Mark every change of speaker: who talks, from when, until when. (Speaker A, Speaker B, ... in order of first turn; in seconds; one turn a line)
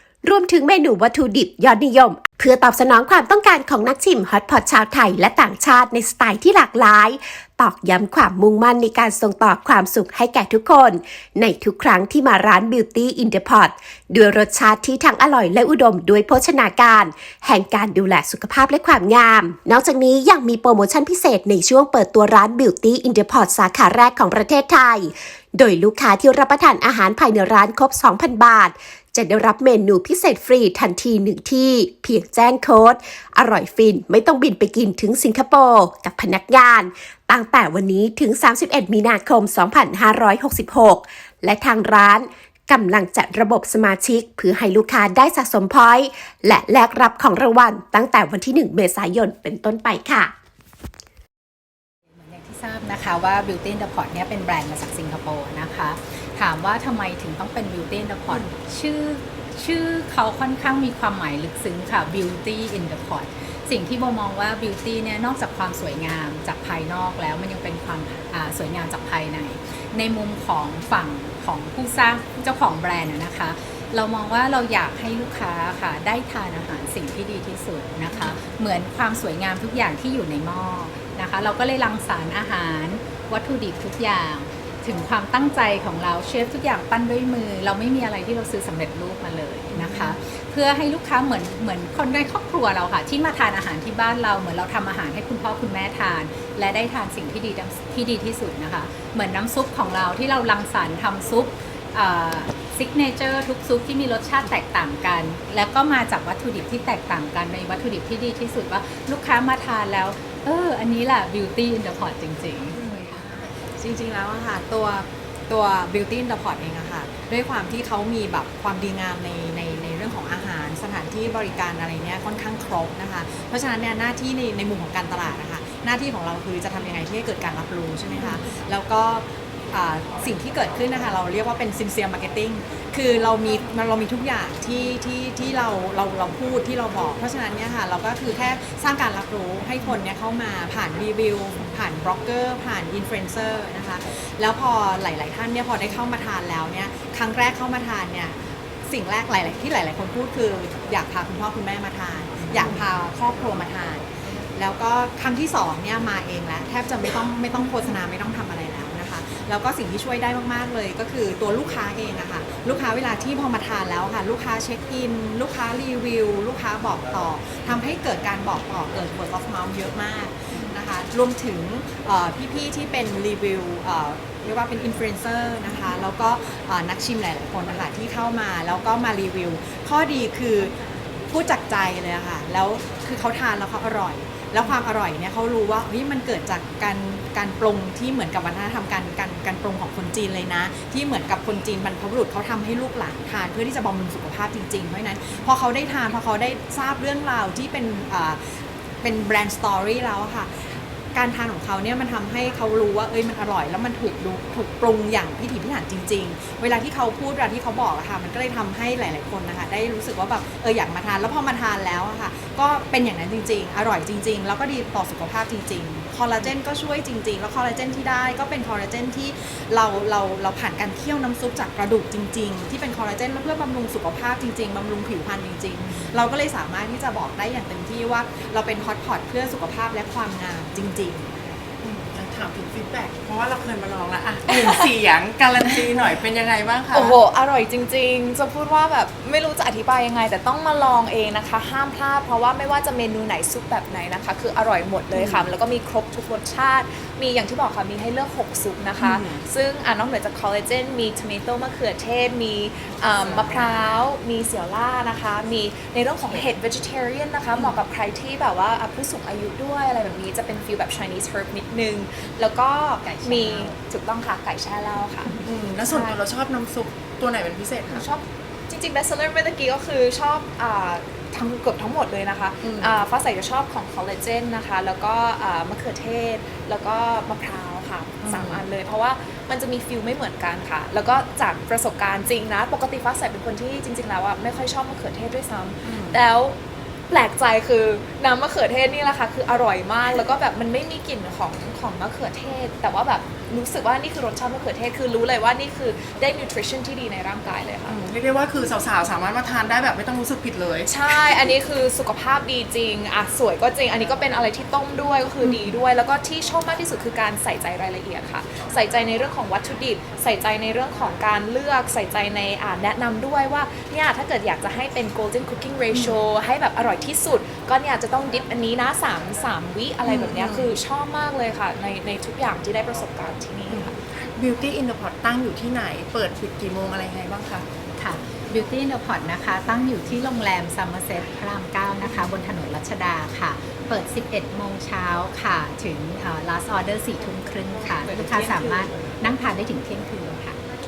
Speaker A: 0.2-50.3
Speaker B: 52.1-113.2
Speaker C: 113.4-180.7
Speaker C: 181.3-198.4
Speaker C: 199.0-231.6
Speaker D: 231.8-237.1
Speaker E: 236.9-266.2
Speaker D: 245.2-245.4
Speaker D: 249.0-249.3
Speaker B: 263.0-263.8
Speaker D: 265.4-268.1
Speaker E: 267.9-286.6
Speaker D: 272.6-273.0
Speaker D: 278.2-278.6
Speaker D: 285.9-286.2
Speaker E: 287.1-297.9
Speaker D: 297.9-301.5
Speaker E: 300.9-324.0
Speaker D: 320.1-320.7
Speaker D: 323.7-327.6
Speaker B: 328.0-340.6